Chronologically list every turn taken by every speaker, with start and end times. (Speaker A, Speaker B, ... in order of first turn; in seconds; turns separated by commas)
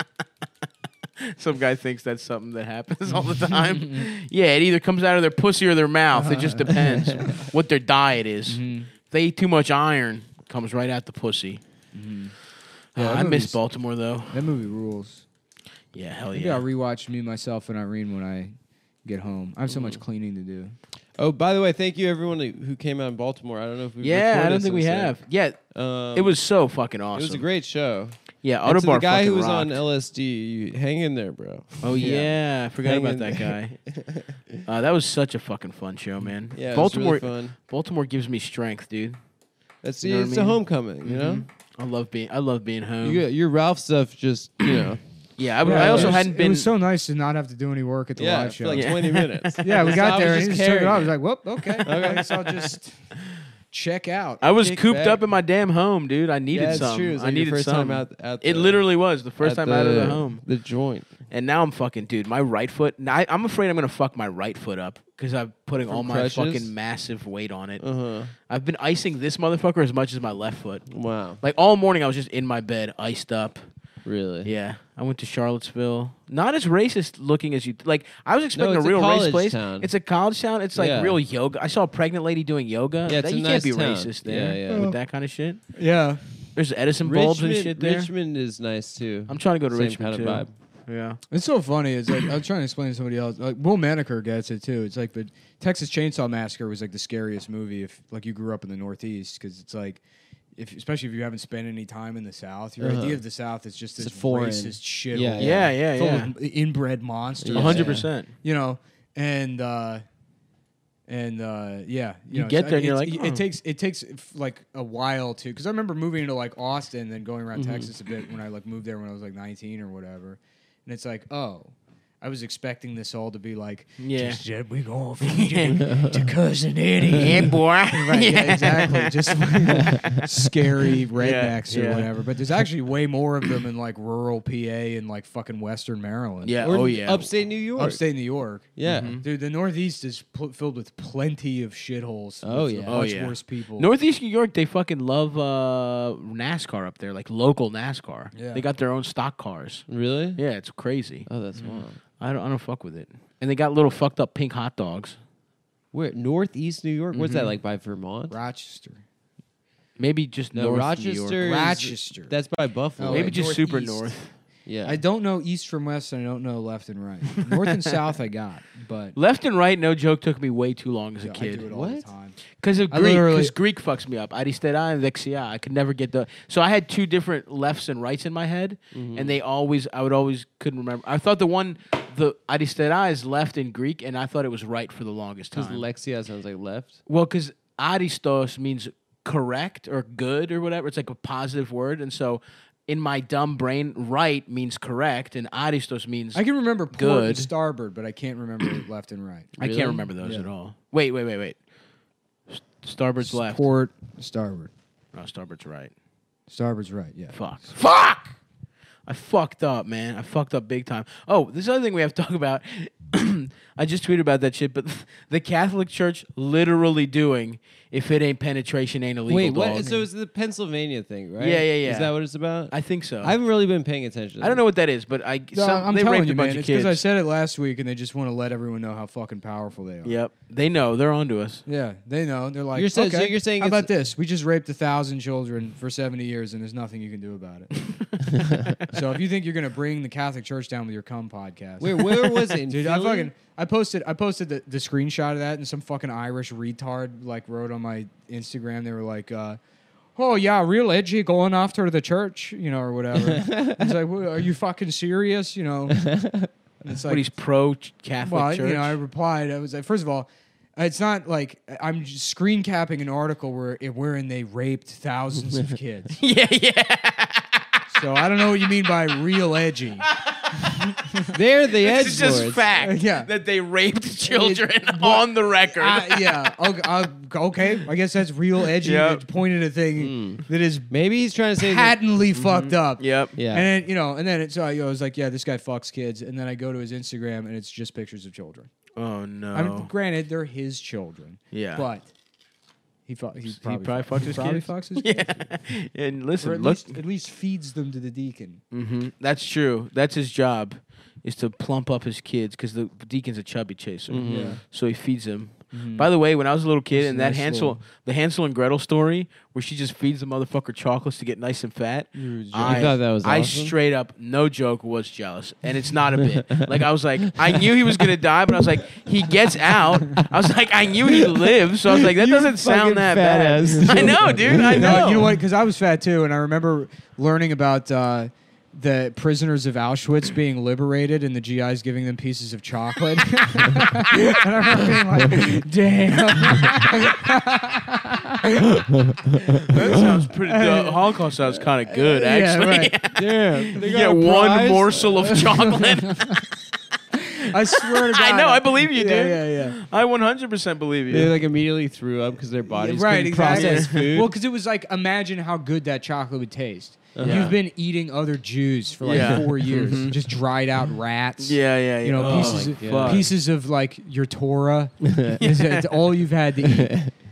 Speaker A: 1.2-11.6, Speaker B: 3.1-4.1, Speaker B: 6.1-7.5, Speaker B: 8.5-8.9, Speaker B: 11.9-12.3, Speaker A: 12.9-14.5, Speaker B: 12.9-13.6, Speaker B: 14.3-15.2, Speaker A: 15.9-16.6, Speaker B: 16.3-18.5, Speaker B: 19.1-20.7, Speaker C: 19.7-20.0, Speaker C: 21.2-25.2, Speaker A: 24.0-27.4, Speaker C: 25.7-26.4, Speaker C: 27.1-34.6, Speaker A: 28.4-29.8, Speaker A: 31.8-33.8, Speaker A: 34.6-39.2, Speaker C: 36.5-37.5, Speaker C: 39.8-41.5, Speaker A: 40.0-43.2, Speaker C: 43.0-45.0, Speaker A: 45.4-46.7, Speaker B: 45.6-49.0, Speaker C: 45.6-46.2, Speaker C: 48.2-51.2, Speaker A: 48.7-49.3, Speaker B: 49.6-53.1, Speaker C: 51.8-52.7, Speaker B: 53.7-54.4, Speaker A: 54.4-60.5, Speaker C: 54.6-55.2, Speaker C: 56.5-58.8, Speaker C: 59.4-61.1, Speaker A: 61.3-67.8, Speaker C: 65.9-66.7, Speaker C: 67.8-68.3, Speaker A: 68.5-73.6, Speaker C: 70.9-71.4, Speaker C: 74.0-74.5, Speaker A: 74.4-85.6, Speaker C: 78.5-79.9, Speaker C: 80.7-81.2, Speaker C: 83.0-84.9, Speaker B: 84.7-85.0, Speaker B: 85.7-86.2, Speaker A: 86.5-88.1, Speaker C: 87.0-90.5, Speaker A: 89.3-91.2, Speaker B: 91.3-100.0, Speaker B: 100.5-110.0, Speaker C: 102.8-103.2, Speaker C: 104.0-105.7, Speaker A: 105.4-106.3, Speaker C: 107.4-108.1, Speaker A: 107.5-108.3, Speaker B: 111.1-136.7, Speaker A: 112.3-113.4, Speaker C: 117.5-117.9, Speaker A: 124.0-124.4, Speaker A: 125.2-125.9, Speaker C: 125.8-126.2, Speaker A: 127.2-129.6, Speaker C: 129.7-130.2, Speaker A: 131.2-132.1, Speaker A: 136.4-137.3, Speaker C: 136.6-138.0, Speaker B: 137.8-143.9, Speaker C: 138.8-139.2, Speaker A: 138.8-139.2, Speaker C: 142.4-143.0, Speaker A: 142.9-155.2, Speaker B: 148.3-148.7, Speaker C: 149.9-150.4, Speaker C: 151.3-152.0, Speaker C: 155.9-158.4, Speaker A: 157.1-157.5, Speaker B: 158.3-159.0, Speaker A: 160.0-161.4, Speaker C: 160.5-163.4, Speaker B: 161.4-162.3, Speaker B: 163.0-164.1, Speaker A: 163.1-164.3, Speaker C: 164.7-165.0, Speaker B: 164.8-169.2, Speaker A: 167.4-167.9, Speaker A: 169.2-171.7, Speaker B: 171.2-172.4, Speaker C: 171.7-172.1, Speaker A: 172.6-185.8, Speaker B: 172.9-173.5, Speaker C: 178.9-179.4, Speaker C: 185.5-186.9, Speaker A: 187.1-197.5, Speaker B: 196.3-199.6, Speaker C: 199.6-200.1, Speaker A: 199.6-201.6, Speaker B: 200.2-200.5, Speaker A: 202.5-203.6, Speaker B: 203.2-204.7, Speaker A: 205.1-205.9, Speaker B: 206.5-207.4, Speaker A: 207.3-208.4, Speaker A: 209.1-219.9, Speaker C: 219.3-224.6, Speaker B: 219.8-220.1, Speaker A: 221.4-222.1, Speaker A: 222.7-223.4, Speaker A: 224.4-227.0, Speaker B: 225.5-230.2, Speaker A: 230.1-231.6, Speaker B: 231.7-237.7, Speaker C: 232.7-233.9, Speaker C: 238.4-238.7, Speaker B: 238.9-249.6, Speaker C: 241.8-243.3, Speaker B: 250.2-256.1, Speaker C: 253.2-253.9, Speaker C: 255.9-256.5, Speaker B: 256.8-257.3, Speaker A: 257.1-259.0, Speaker B: 258.2-266.2, Speaker A: 266.2-267.8, Speaker B: 267.9-271.3, Speaker A: 270.0-271.0, Speaker C: 271.3-272.6, Speaker A: 271.8-276.5, Speaker B: 272.7-273.3, Speaker B: 274.2-280.9, Speaker A: 278.7-279.2, Speaker C: 280.0-281.9, Speaker B: 281.6-288.7, Speaker A: 282.3-283.3, Speaker C: 283.4-283.7, Speaker A: 289.0-289.9, Speaker B: 289.5-292.1, Speaker A: 291.5-291.9, Speaker B: 293.1-295.2, Speaker A: 293.5-297.0, Speaker B: 296.4-298.6, Speaker A: 298.7-325.3, Speaker C: 304.1-304.6, Speaker B: 304.2-304.6, Speaker B: 305.7-306.1, Speaker B: 306.9-307.8, Speaker B: 312.1-312.9, Speaker C: 312.6-313.7, Speaker C: 316.2-316.7, Speaker C: 317.2-320.3, Speaker C: 320.9-325.1, Speaker B: 323.9-338.7, Speaker A: 335.6-336.9, Speaker C: 338.7-340.0, Speaker A: 339.6-346.4, Speaker B: 339.7-341.2, Speaker B: 341.9-343.0, Speaker C: 343.1-345.4, Speaker B: 345.2-346.5, Speaker B: 347.1-349.8, Speaker A: 347.7-351.3, Speaker C: 351.1-354.3, Speaker B: 352.7-366.9, Speaker A: 353.4-354.1, Speaker C: 357.1-357.5, Speaker A: 357.2-357.6, Speaker A: 359.0-360.2, Speaker C: 359.1-359.4, Speaker A: 361.4-363.3, Speaker C: 362.2-363.3, Speaker C: 365.0-365.4, Speaker A: 365.4-366.1, Speaker C: 366.7-367.1